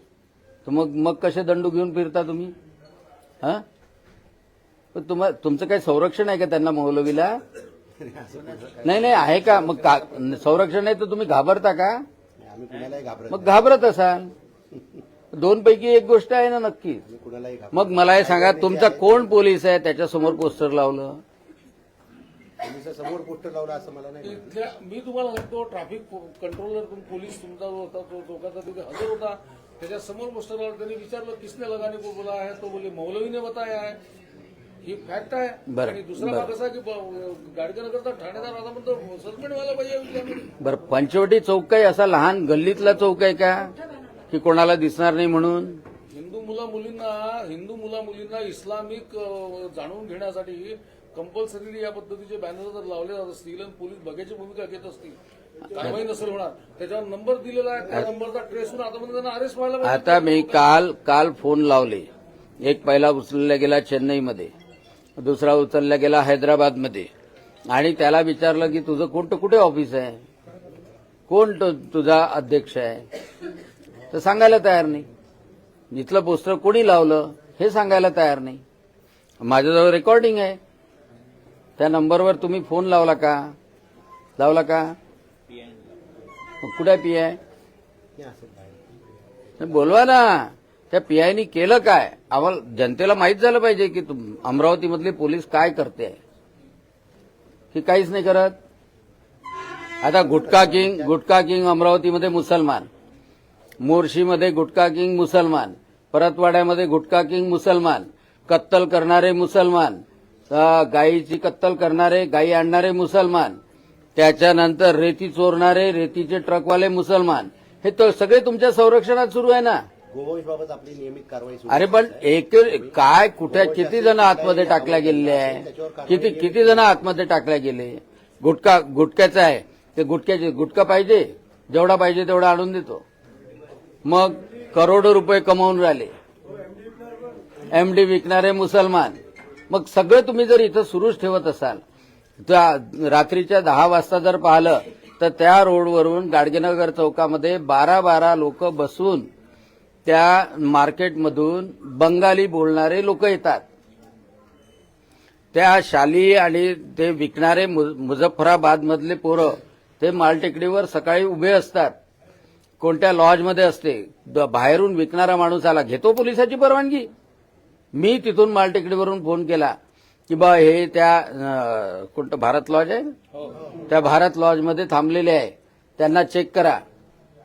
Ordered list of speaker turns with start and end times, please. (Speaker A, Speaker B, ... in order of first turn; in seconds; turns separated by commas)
Speaker A: 0.6-2.5, Speaker A: 4.9-7.4, Speaker B: 8.0-10.3, Speaker A: 8.8-12.0, Speaker B: 12.4-13.7, Speaker A: 13.3-14.3, Speaker A: 15.3-17.0, Speaker B: 17.0-19.4, Speaker A: 17.7-21.2, Speaker B: 22.6-24.5, Speaker C: 24.2-34.0, Speaker C: 34.8-40.5, Speaker A: 35.7-36.5, Speaker A: 40.6-43.7, Speaker A: 44.3-45.8, Speaker C: 46.1-55.2, Speaker C: 55.7-60.7, Speaker A: 59.8-62.1, Speaker A: 62.6-64.5, Speaker A: 65.2-67.1, Speaker A: 67.7-70.2, Speaker A: 71.3-73.0, Speaker A: 74.1-75.1, Speaker A: 75.9-78.6, Speaker A: 79.4-80.6, Speaker A: 81.8-83.5, Speaker A: 84.4-84.9, Speaker A: 86.6-87.4, Speaker B: 88.2-88.8, Speaker A: 89.6-96.2, Speaker B: 89.6-89.9, Speaker A: 97.7-98.5, Speaker A: 100.0-102.9, Speaker B: 100.2-101.1, Speaker A: 103.8-110.0, Speaker A: 110.5-113.6, Speaker A: 114.2-119.8, Speaker B: 120.1-127.1, Speaker A: 121.7-133.0, Speaker A: 134.0-136.1, Speaker A: 137.7-139.2, Speaker A: 139.7-141.8, Speaker A: 142.4-149.3, Speaker A: 150.0-153.6, Speaker A: 155.5-161.9, Speaker A: 162.8-167.1, Speaker A: 167.9-169.7, Speaker A: 170.3-173.0, Speaker A: 173.9-176.8